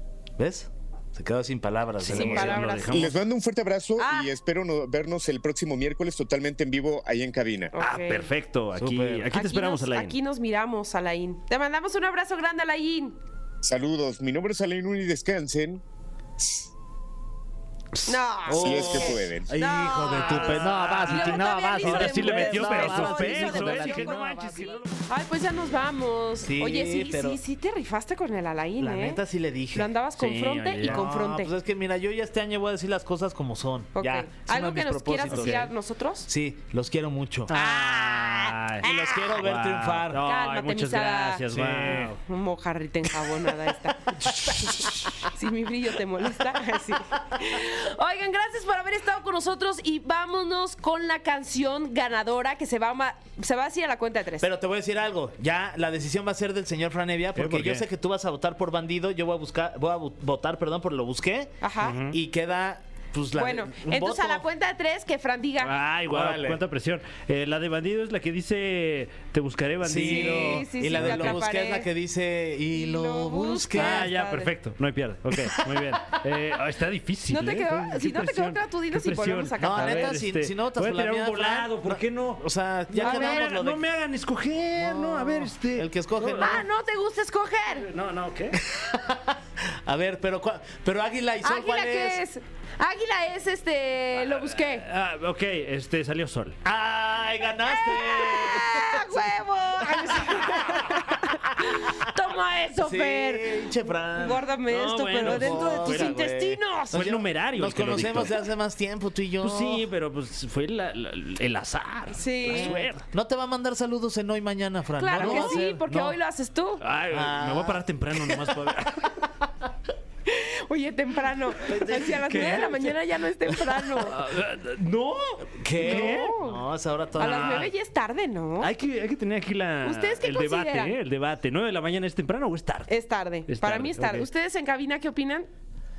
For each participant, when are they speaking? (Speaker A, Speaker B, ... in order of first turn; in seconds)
Speaker A: 0.4-2.6, 8.8-9.3, 18.5-24.7, 26.4-27.4, 28.8-29.9, 30.8-35.7, 36.3-37.5, 38.8-40.2, 41.5-42.1, 54.4-64.5, 66.1-66.6, 69.8-74.1, 75.5-75.8, 79.6-83.8, 84.8-86.6, 88.6-92.2, 96.6-99.1, 99.9-100.9, 102.8-104.5, 105.1-109.9, 112.5-116.2, 117.1-118.6, 121.6-122.9, 125.6-127.7
Speaker B: 2.0-3.1, 7.8-10.2, 20.2-25.0, 30.2-31.1, 35.3-35.7, 37.5-42.2, 44.2-45.0, 57.4-57.9, 61.8-62.2, 65.6-71.4, 73.7-86.6, 87.8-88.6, 94.5-96.6, 104.7-106.2, 106.9-108.4, 109.4-113.0, 115.2-115.6, 116.8-119.2, 122.4-122.8, 124.0-126.3, 127.2-127.7, 128.6-132.9, 133.5-134.3
Speaker C: 2.1-3.0, 4.0-4.3, 7.7-8.3, 9.3-13.2, 18.1-31.5, 34.0-36.3, 37.5-39.4, 40.2-54.5, 61.6-62.0, 63.4-65.7, 70.0-71.9, 72.7-74.5, 77.3-80.2, 82.9-83.5, 86.4-87.9, 91.4-94.9, 97.7-107.2, 112.1-112.8, 115.0-116.8, 120.3-124.2, 125.8-126.6, 127.2-128.7, 129.8-131.0, 132.9-135.5
Speaker D: 2.9-7.7, 13.6-15.8, 18.6-19.5